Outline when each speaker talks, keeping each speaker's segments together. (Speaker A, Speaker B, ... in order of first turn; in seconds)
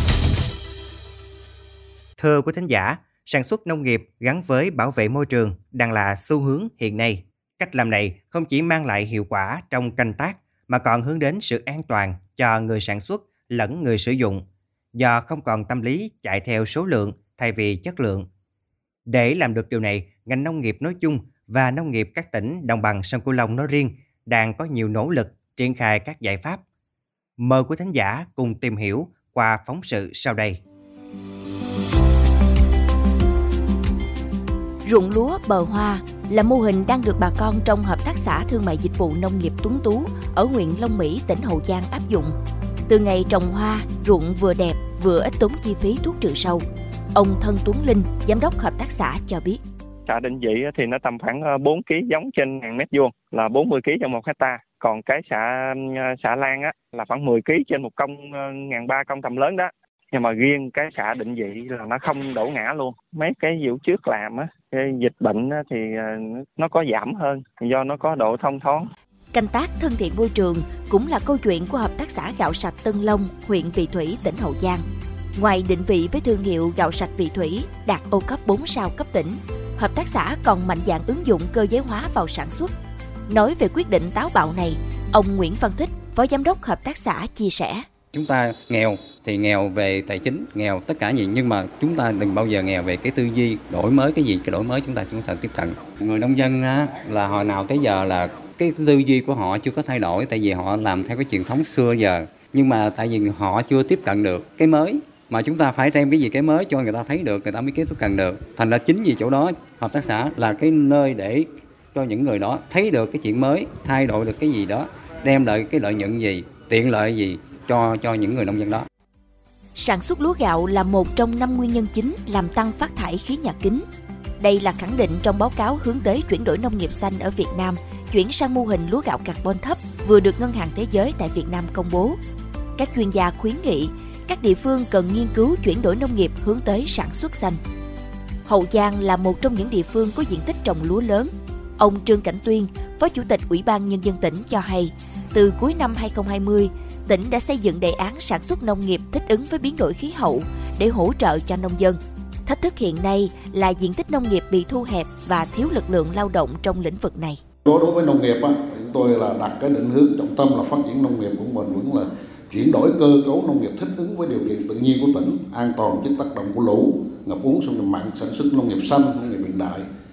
Speaker A: 2.2-18.3, 19.1-26.6, 27.4-30.6
Speaker B: 34.8-42.3, 42.9-46.6, 47.1-49.6, 69.3-74.8, 75.3-82.7, 83.3-87.8, 119.7-123.8, 124.4-132.2, 132.8-137.6, 138.4-157.4
Speaker C: 50.1-68.9
Speaker D: 88.1-118.8
Speaker E: 157.7-169.9